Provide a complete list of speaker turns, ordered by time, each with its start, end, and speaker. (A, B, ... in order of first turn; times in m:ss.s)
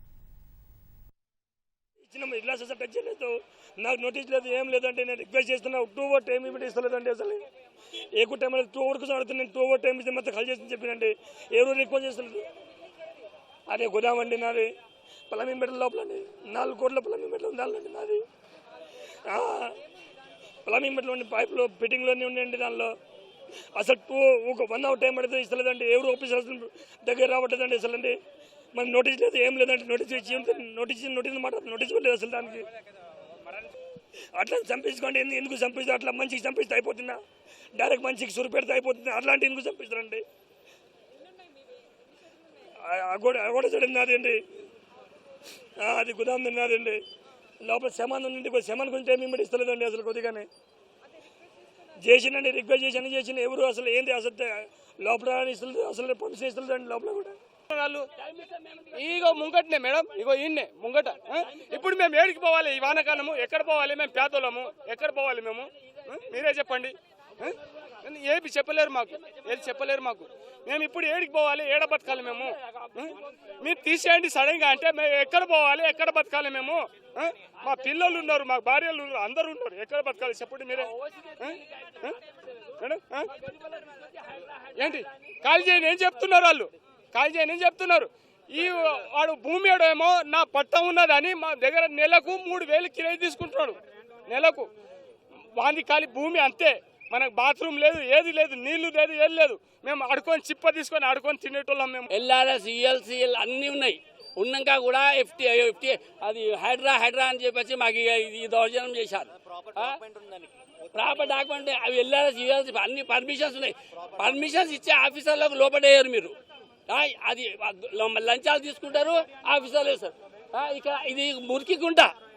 0:02.0-0:07.4 A
0:08.2-0:12.4 A
0:13.7-0:14.7 A
0:15.3-0:18.2 A
0:19.3-0:19.8 A
0:20.6-0:22.9 A
0:23.7-0:28.2 A
0:28.7-0:32.7 A
0:34.4-0:37.2 A
0:37.8-0:40.2 A
0:42.8-0:44.4 A
0:45.8-0:47.0 A
0:47.6-0:50.5 A
0:52.0-0:57.3 A
0:57.7-0:58.1 B
0:58.2-0:59.4 C
0:59.0-1:22.2 B
1:21.0-1:22.0 C
1:22.8-1:23.3 B
1:23.4-1:24.5 C
1:24.8-1:34.7 B
1:35.6-1:42.1 B
1:42.1-1:50.2 C
1:50.9-1:56.4 C
1:56.9-2:02.1 C